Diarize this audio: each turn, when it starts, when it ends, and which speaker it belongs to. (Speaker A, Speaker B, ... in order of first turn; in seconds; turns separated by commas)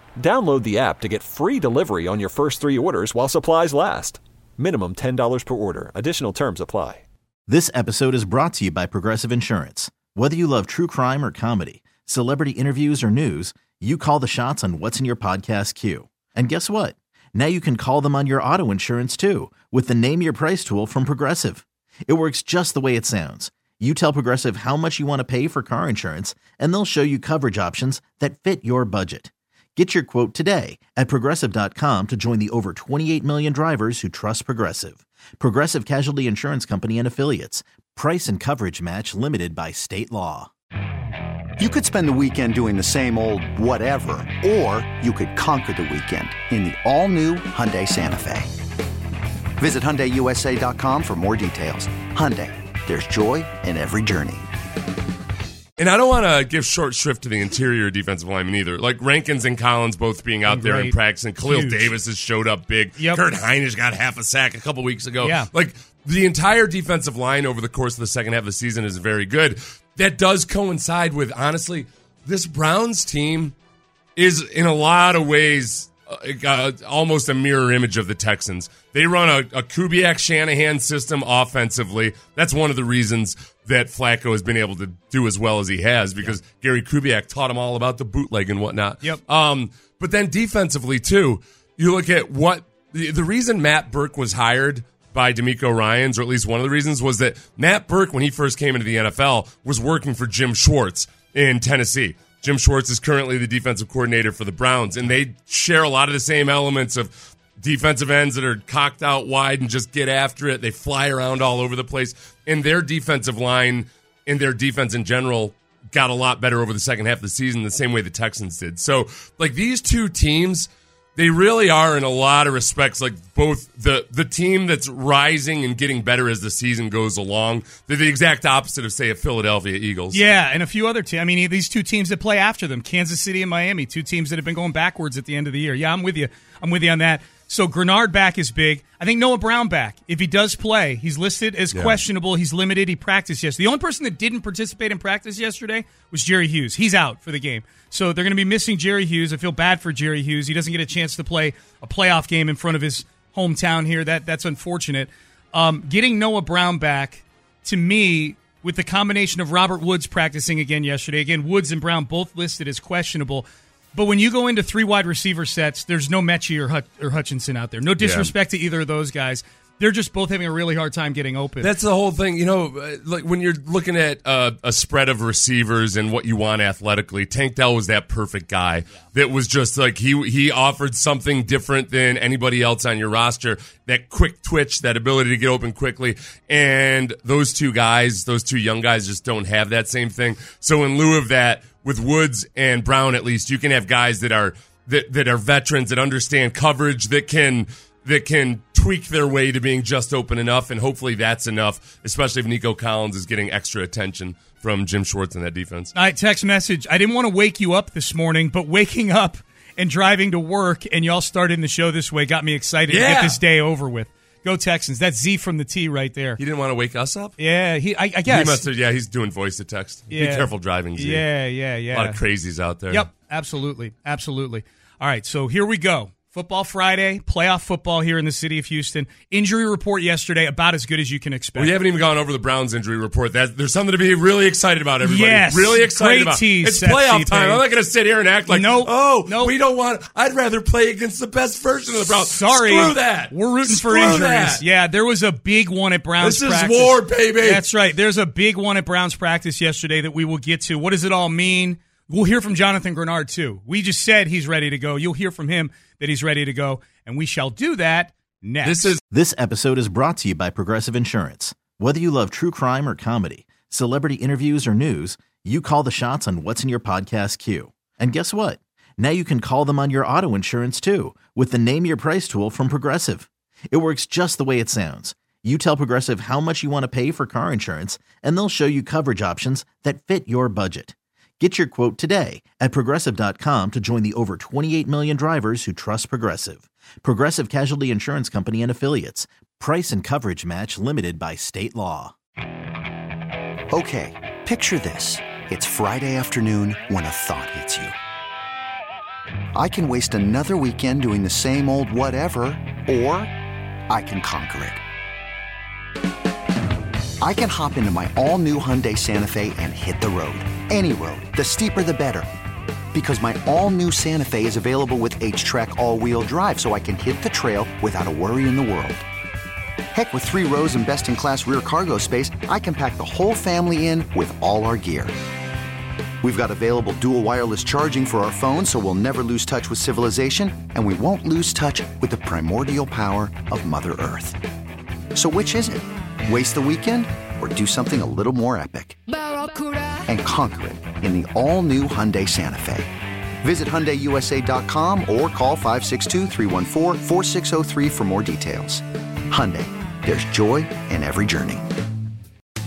Speaker A: 0.2-7.0, Speaker B: 7.5-40.5, Speaker C: 41.6-48.5, Speaker C: 49.6-54.5, Speaker D: 55.8-73.5, Speaker E: 60.4-61.9, Speaker E: 63.0-63.2, Speaker E: 65.2-65.5, Speaker D: 74.2-130.2, Speaker E: 130.1-171.7, Speaker D: 141.7-142.0, Speaker D: 168.0-168.3, Speaker D: 171.6-205.9, Speaker E: 205.9-216.4, Speaker D: 212.9-213.4, Speaker D: 216.4-217.3, Speaker E: 217.4-218.7, Speaker D: 218.2-221.3, Speaker E: 220.1-222.2, Speaker D: 221.9-223.1, Speaker E: 222.9-231.8, Speaker D: 231.6-244.6, Speaker E: 235.0-237.7, Speaker E: 238.5-239.5, Speaker E: 242.0-259.0, Speaker D: 246.2-247.7, Speaker D: 258.6-259.0, Speaker B: 259.1-292.1, Speaker C: 293.7-297.9, Speaker C: 299.5-303.3, Speaker C: 303.9-304.8, Speaker C: 307.2-312.3, Speaker C: 312.9-319.0, Speaker C: 319.9-325.1, Speaker C: 326.2-334.4, Speaker C: 335.1-339.0, Speaker C: 340.1-342.9, Speaker C: 343.4-351.7